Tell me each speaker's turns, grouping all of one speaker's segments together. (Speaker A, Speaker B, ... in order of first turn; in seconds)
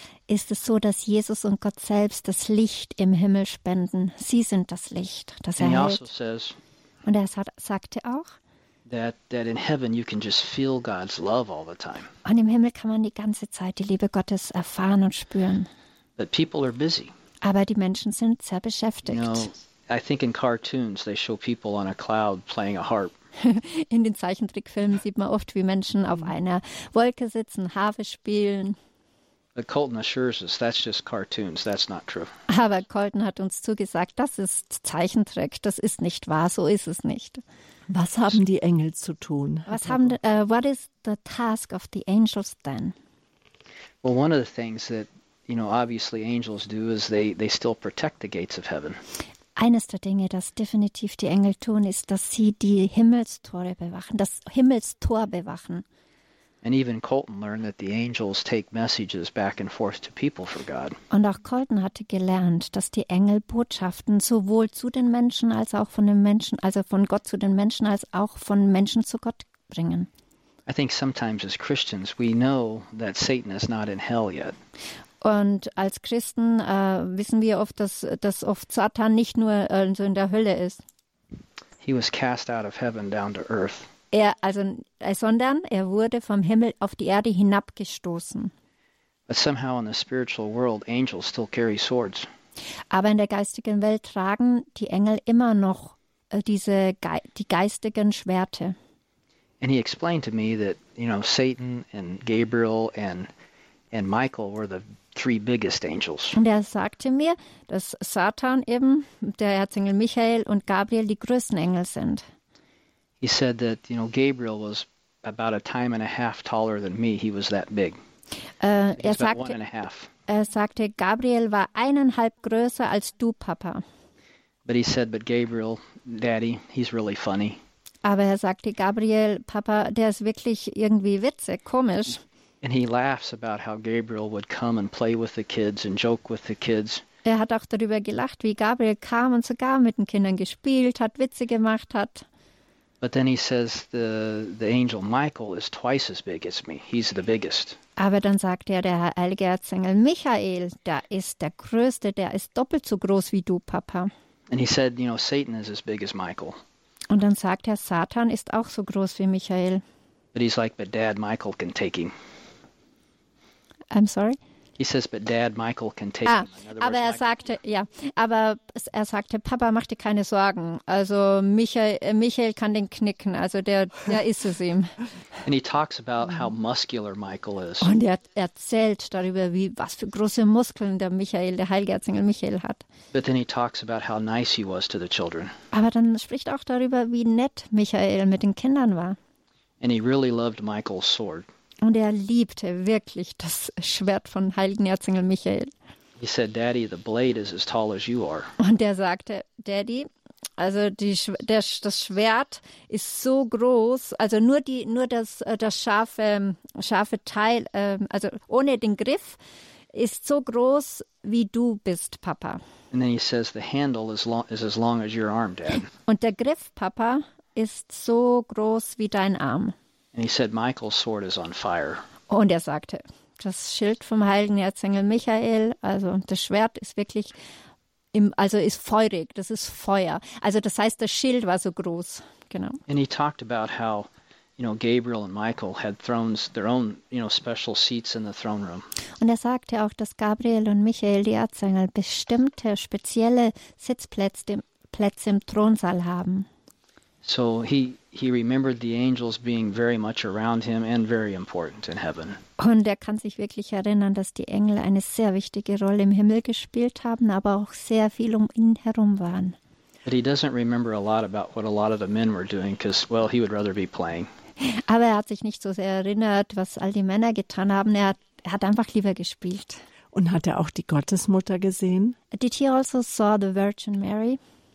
Speaker A: 0.3-6.0, 7.0-8.3, 12.2-15.7, 17.4-19.5, 23.4-28.8, 32.5-37.4, 39.7-43.0, 49.6-55.9, 61.1-70.1, 75.2-80.8, 84.1-88.5, 92.9-98.8, 106.4-112.2, 118.6-119.6, 120.3-123.8, 128.0-132.2, 137.2-142.3, 148.0-154.1, 157.1-159.8, 163.9-164.4, 166.3-174.9, 177.8-182.8, 185.7-189.2, 191.8-195.7, 198.6-209.4, 209.9-212.6, 216.1-219.8, 222.3-227.4, 228.1-232.8, 239.2-246.5, 252.6-259.6, 264.6-269.8, 272.3-274.4
Speaker B: 5.6-6.6, 8.9-12.1, 16.2-17.1, 19.1-23.1, 29.6-32.3, 44.0-49.0, 56.6-61.0, 70.7-74.5, 81.8-83.9, 89.3-92.3, 99.6-103.3, 103.9-106.4, 113.2-118.0, 119.0-120.1, 124.7-127.6, 132.6-137.0, 143.0-147.8, 154.5-156.6, 160.3-162.1, 164.8-167.4, 175.4-177.9, 183.1-185.5, 189.8-191.5, 196.2-198.5, 212.9-215.9, 220.1-222.0, 232.9-238.9, 247.2-252.4, 260.1-264.3
Speaker C: 37.9-40.1, 270.1-272.2